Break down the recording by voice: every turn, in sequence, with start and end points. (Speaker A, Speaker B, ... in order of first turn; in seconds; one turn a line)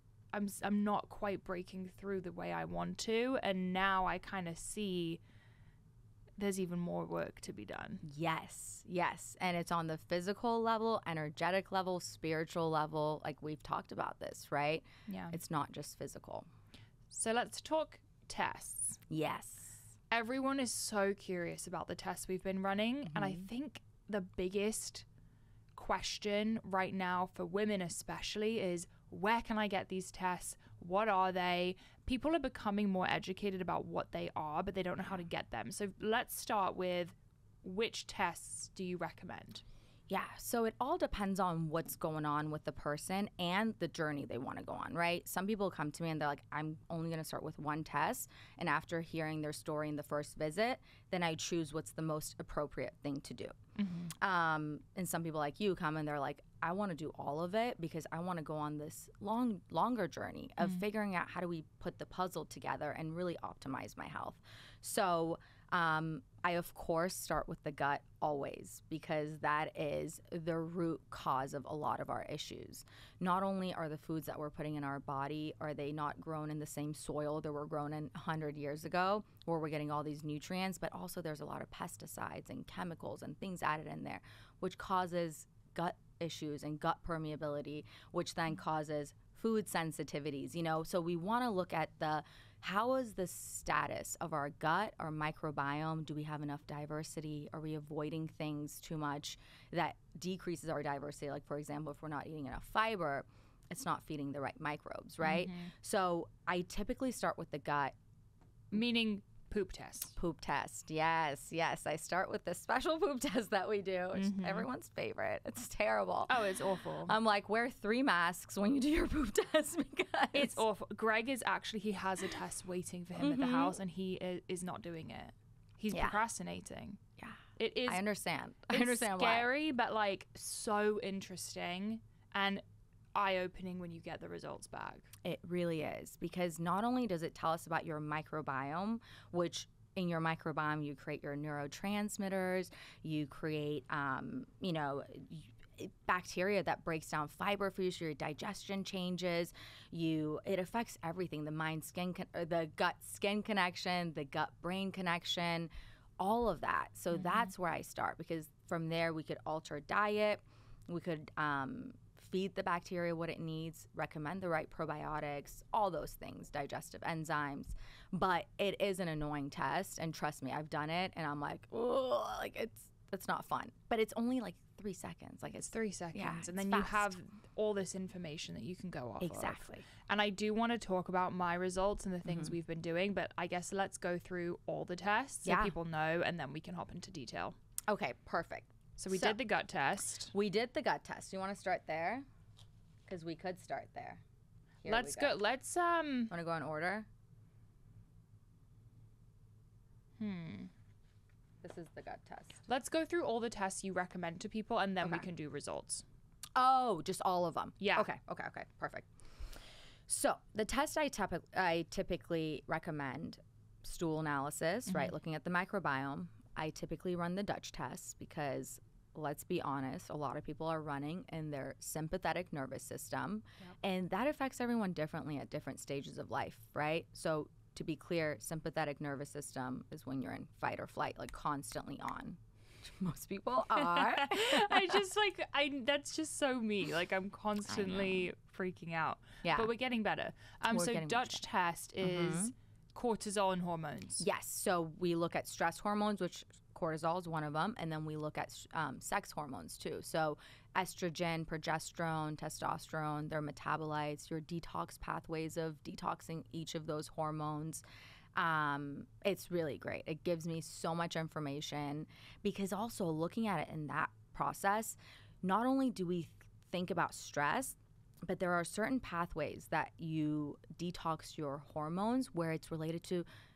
Speaker A: 0.3-5.2
Speaker A: 6.4-8.0
Speaker B: 8.0-16.5
Speaker A: 15.1-15.4
Speaker A: 17.1-19.0
Speaker B: 19.1-19.8
Speaker A: 20.1-25.1
Speaker B: 23.1-23.5
Speaker A: 25.8-39.6
Speaker B: 40.1-53.6
Speaker A: 53.8-54.1
Speaker B: 54.1-108.0
Speaker A: 105.2-105.7
Speaker A: 108.7-110.2
Speaker B: 110.2-116.5
Speaker A: 114.2-114.7
Speaker A: 116.3-117.2
Speaker B: 117.1-120.6
Speaker A: 120.3-127.0
Speaker B: 123.2-123.8
Speaker B: 125.9-126.2
Speaker B: 127.2-129.5
Speaker A: 127.6-128.0
Speaker A: 128.7-132.6
Speaker A: 133.2-135.1
Speaker B: 135.2-177.1
Speaker A: 157.2-157.5
Speaker A: 175.6-187.6
Speaker B: 179.2-179.9
Speaker B: 182.3-182.5
Speaker B: 185.5-185.8
Speaker B: 187.9-189.4
Speaker A: 189.0-190.3
Speaker B: 190.3-192.3
Speaker B: 193.1-194.2
Speaker B: 194.8-195.4
Speaker A: 194.9-196.3
Speaker B: 196.3-197.1
Speaker A: 200.2-200.7
Speaker B: 201.6-202.6
Speaker A: 202.7-206.1
Speaker B: 206.6-209.1
Speaker A: 207.8-208.1
Speaker B: 210.1-235.0
Speaker A: 214.9-215.2
Speaker A: 233.7-244.2
Speaker B: 237.7-238.3
Speaker B: 239.4-239.7
Speaker B: 240.7-241.4
Speaker B: 242.0-242.5
Speaker B: 244.2-257.8
Speaker B: 258.4-273.3